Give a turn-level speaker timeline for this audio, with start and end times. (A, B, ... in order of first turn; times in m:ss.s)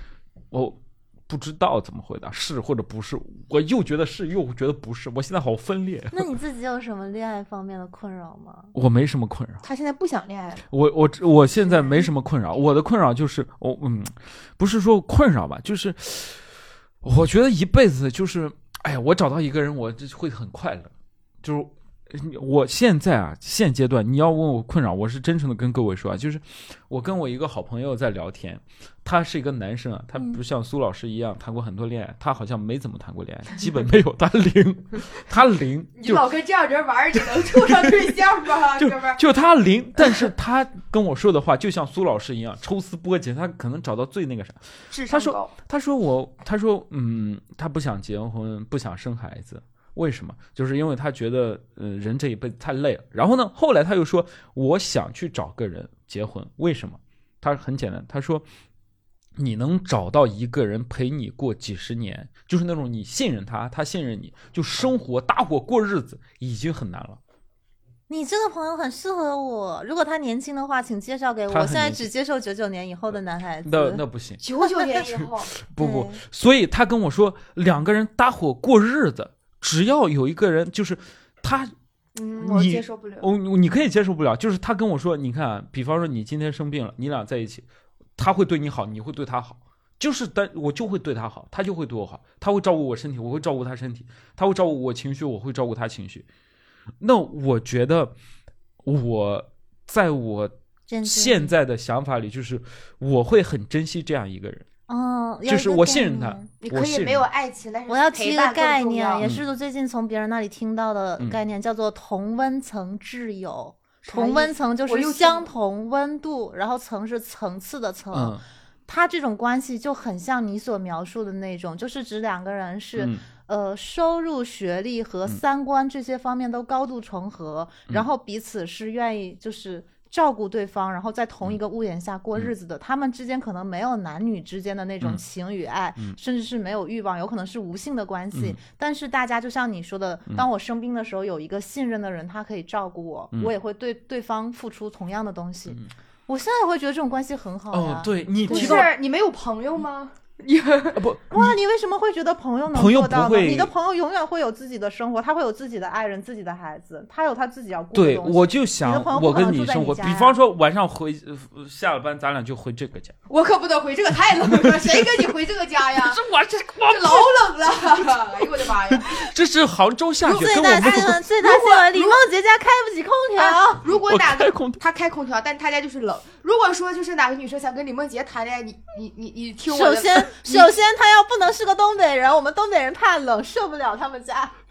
0:00.5-0:06.3 A
0:06.1-0:08.7 B
0:08.8-0:09.6 A
0:09.6-0:10.7 C
0:10.7-0:16.4 A
0:17.0-0:20.9 A
0:21.4-0:36.2 A
0:36.0-0:39.2 C
0:37.2-0:37.9 A
0:38.8-0:58.4 A
0:44.9-0:45.5 C
0:59.4-1:07.2 A
1:08.1-1:14.0 B
1:11.5-1:12.0 A
1:13.6-1:14.4 A
1:14.4-1:15.6 C
1:15.0-1:21.7 A
1:15.8-1:16.2 B
1:22.2-1:23.3 C
1:22.4-1:27.7 A
1:28.2-1:36.3 A
1:37.0-1:38.1 A
1:38.8-1:44.7 A
1:40.9-1:41.5 B
1:44.9-1:46.5 B
1:45.5-1:47.3 A
1:46.6-1:49.2 C
1:47.9-2:28.8 B
1:54.0-1:55.5 C
1:58.1-1:58.4 A
2:03.0-2:03.2 A
2:18.3-2:18.6 A
2:27.7-2:28.9 A
2:28.5-2:31.0 C
2:31.0-2:31.6 A
2:31.3-2:40.4 B
2:32.7-2:33.7 A
2:37.9-2:43.2 A
2:43.3-2:46.2 C
2:44.6-2:45.1 A
2:46.0-2:47.4 A
2:46.8-2:49.3 C
2:48.0-2:51.2 A
2:50.3-2:52.2 C
2:50.3-2:53.8 B
2:53.4-3:00.7 C
2:53.9-2:54.8 A
2:59.7-3:04.5 B